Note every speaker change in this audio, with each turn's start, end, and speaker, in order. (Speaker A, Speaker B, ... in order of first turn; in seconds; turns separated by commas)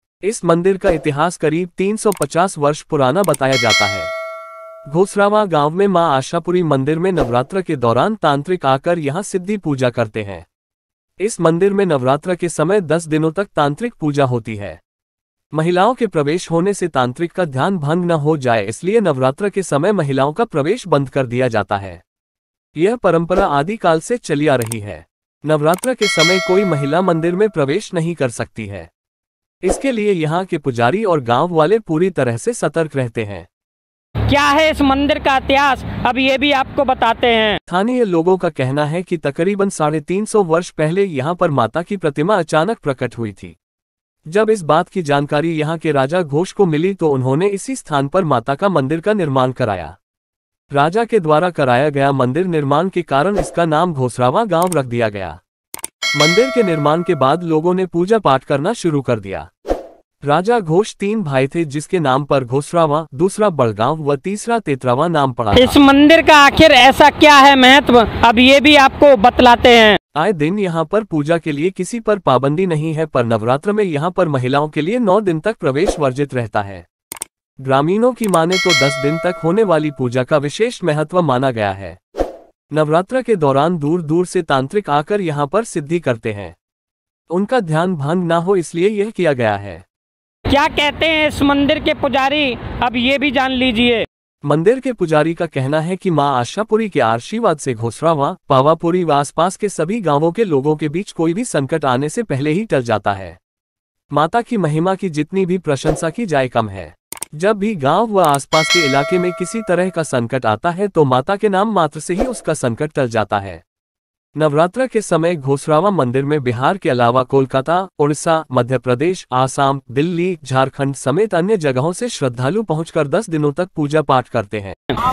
Speaker A: 0.2-4.1, Speaker A: 4.9-10.5, Speaker A: 11.2-14.8, Speaker A: 15.5-22.0, Speaker A: 22.8-28.9, Speaker A: 29.6-33.5, Speaker B: 34.3-37.6, Speaker A: 37.7-43.5, Speaker A: 44.3-50.0, Speaker A: 50.7-55.4, Speaker A: 56.1-59.5, Speaker A: 60.2-65.8, Speaker B: 65.5-70.0, Speaker A: 70.1-76.8, Speaker A: 77.6-82.0, Speaker A: 82.7-86.5, Speaker A: 87.3-89.8, Speaker B: 90.5-94.0, Speaker A: 94.4-103.4, Speaker A: 104.1-113.6, Speaker A: 114.4-124.7